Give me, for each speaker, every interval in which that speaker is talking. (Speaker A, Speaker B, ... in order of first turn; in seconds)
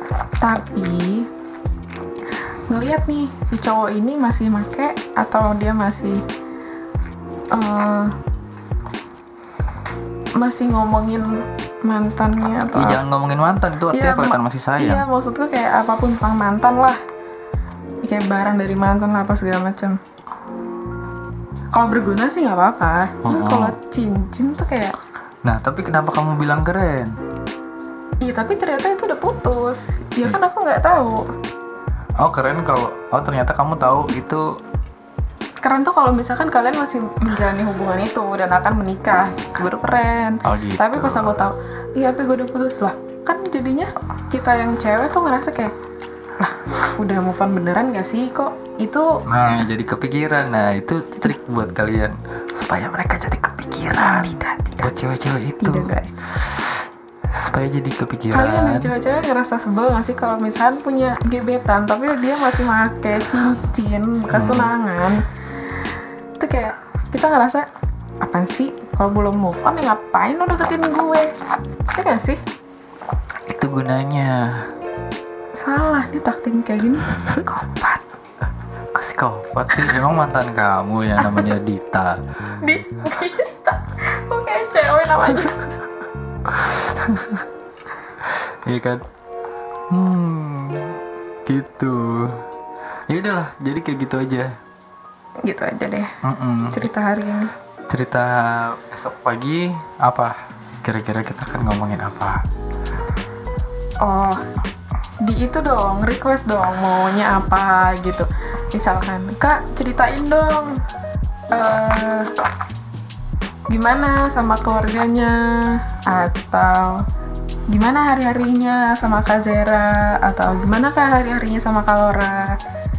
Speaker A: 0.4-1.3, 2.7-6.2, 7.5-8.2, 10.4-13.0, 13.9-17.0, 18.0-20.0, 21.7-24.9, 28.2-31.3, 35.6-45.7, 46.4-49.2, 54.0-54.8, 55.6-56.3, 58.3-65.2, 66.4-67.7, 68.2-71.3, 71.9-72.4, 75.5-78.0, 82.6-85.6, 95.4-96.1, 96.7-97.5, 104.0-104.5, 105.2-110.8, 111.5-112.3, 113.7-117.0, 117.7-122.6
Speaker B: 12.7-15.0, 23.2-23.8, 25.4-27.2, 32.2-34.6, 40.4-41.4, 49.2-55.9, 57.3-58.9, 64.3-64.7, 73.5-74.7, 78.9-82.2, 86.5-87.4, 88.7-89.0, 89.9-92.4, 93.1-94.5, 96.2-96.8, 97.9-102.4